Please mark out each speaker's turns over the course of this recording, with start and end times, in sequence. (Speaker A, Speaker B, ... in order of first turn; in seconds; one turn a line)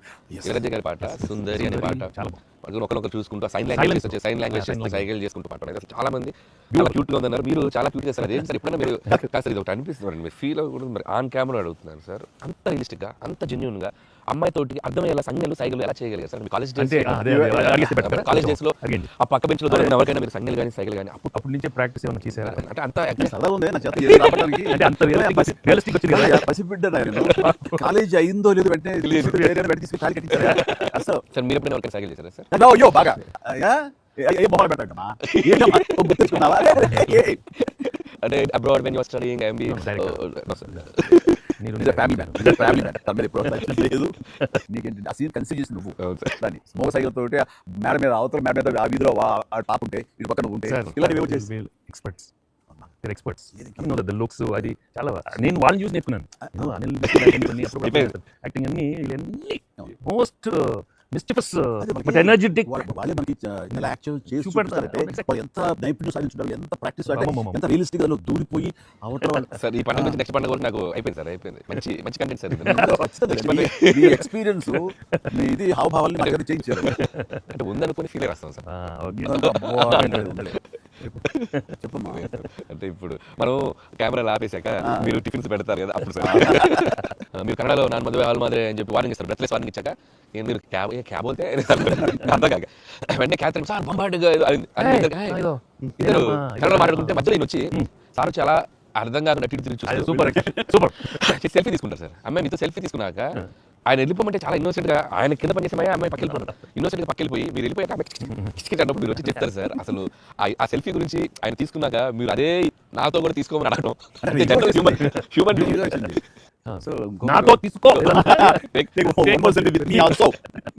Speaker A: 0.3-0.6
Speaker B: 0.4-21.4
Speaker C: 1.1-2.4
Speaker C: 3.7-5.1
Speaker C: 16.8-19.1
Speaker A: 17.3-17.8
Speaker A: 19.7-20.0
Speaker C: 21.4-22.6
Speaker B: 22.2-23.4
Speaker A: 23.2-31.2
Speaker C: 24.1-26.5
Speaker B: 27.1-27.5
Speaker C: 27.3-27.9
Speaker B: 29.0-29.7
Speaker B: 30.3-32.5
Speaker A: 32.5-37.4
Speaker B: 35.2-41.5
Speaker C: 39.7-41.1
Speaker C: 41.6-42.7
Speaker A: 41.8-51.5
Speaker B: 42.4-42.9
Speaker B: 46.0-46.4
Speaker C: 50.7-52.3
Speaker C: 53.0-62.9
Speaker A: 53.5-54.0
Speaker A: 56.4-56.7
Speaker B: 57.0-58.1
Speaker A: 61.8-70.2
Speaker C: 64.3-65.3
Speaker C: 67.1-67.6
Speaker B: 69.4-74.3
Speaker A: 72.6-77.0
Speaker B: 76.2-78.6
Speaker C: 76.9-77.4
Speaker C: 78.7-80.4
Speaker A: 79.1-80.6
Speaker B: 79.3-81.6
Speaker A: 81.8-82.3
Speaker B: 82.1-95.4
Speaker A: 84.8-85.2
Speaker A: 86.2-86.8
Speaker A: 91.8-92.3
Speaker C: 94.8-97.9
Speaker B: 96.0-116.2
Speaker C: 99.9-101.2
Speaker A: 100.3-100.7
Speaker A: 114.2-116.2
Speaker C: 116.7-120.2
Speaker A: 116.8-120.5
Speaker B: 117.9-119.0